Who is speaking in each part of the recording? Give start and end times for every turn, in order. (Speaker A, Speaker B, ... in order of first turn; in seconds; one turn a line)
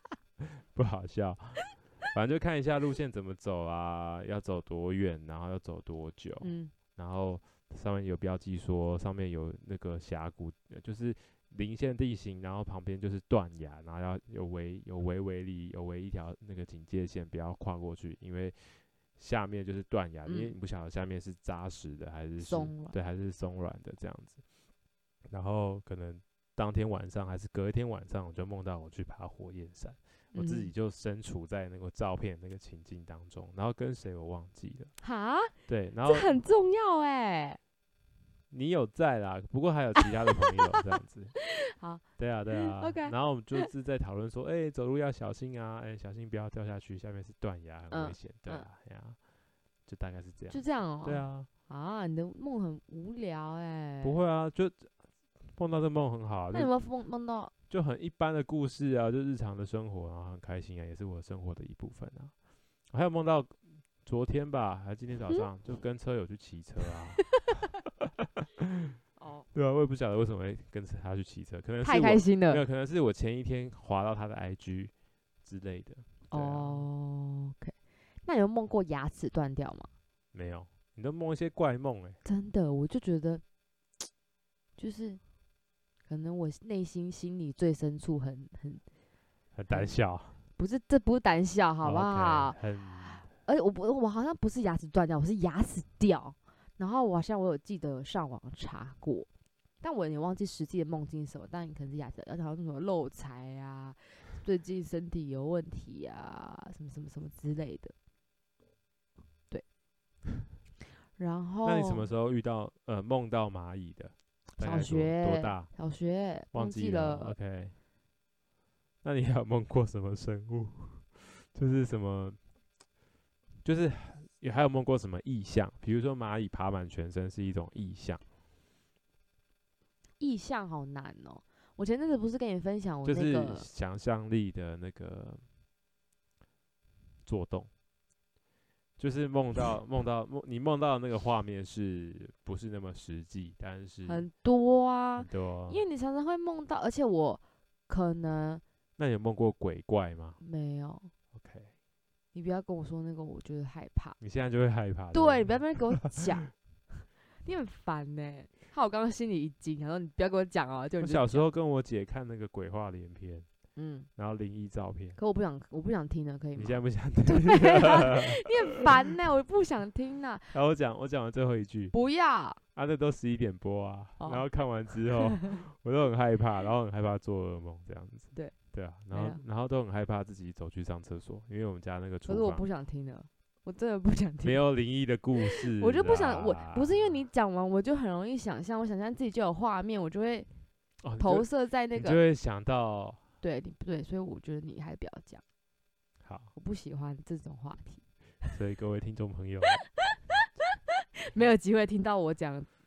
Speaker A: 0.4-24.4
Speaker B: 6.4-6.7
Speaker B: 20.3-20.5
Speaker B: 22.4-22.9
Speaker A: 25.3-34.9
Speaker B: 30.3-30.7
Speaker B: 35.0-35.5
Speaker A: 35.7-36.3
Speaker B: 36.0-37.6
Speaker A: 38.5-41.4
Speaker B: 41.4-43.7
Speaker A: 42.2-49.2
Speaker B: 47.9-48.7
Speaker A: 49.9-51.5
Speaker B: 50.5-54.2
Speaker A: 54.0-54.9
Speaker A: 55.5-56.7
Speaker B: 56.5-57.5
Speaker A: 57.7-62.3
Speaker A: 62.9-69.0
Speaker B: 69.2-69.5
Speaker A: 69.5-74.9
Speaker B: 71.8-72.6
Speaker A: 75.4-76.9
Speaker B: 76.3-79.9
Speaker A: 80.3-82.2
Speaker B: 82.2-83.4
Speaker B: 84.8-85.2
Speaker B: 86.1-88.8
Speaker A: 89.5-90.4
Speaker B: 90.6-99.3
Speaker A: 91.8-93.3
Speaker B: 99.8-107.9
Speaker B: 111.2-112.1
Speaker A: 111.6-115.7
Speaker B: 114.6-117.3
Speaker A: 116.5-117.8
Speaker A: 119.0-122.4
Speaker A: 123.6-128.2
Speaker B: 130.2-133.7
Speaker A: 133.1-135.4
Speaker A: 137.2-137.7
Speaker A: 139.0-144.3
Speaker B: 144.1-148.6
Speaker A: 145.2-145.8
Speaker A: 149.0-150.4
Speaker B: 150.4-151.1
Speaker A: 151.3-151.7
Speaker B: 152.3-154.2
Speaker A: 154.2-156.5
Speaker B: 155.1-156.5
Speaker B: 157.4-161.5
Speaker A: 161.0-163.5
Speaker B: 163.8-164.1
Speaker A: 164.2-165.2
Speaker B: 165.2-170.5
Speaker A: 166.6-168.8
Speaker A: 170.5-171.9
Speaker B: 171.9-172.6
Speaker A: 172.8-182.7
Speaker B: 175.2-175.6
Speaker B: 179.1-179.4
Speaker B: 182.3-184.6
Speaker A: 184.4-187.2
Speaker B: 185.4-190.5
Speaker A: 191.0-193.2
Speaker B: 191.2-192.2
Speaker B: 193.4-195.4
Speaker A: 196.2-196.5
Speaker B: 196.6-198.0
Speaker A: 198.5-199.8
Speaker B: 200.1-200.5
Speaker B: 201.2-202.7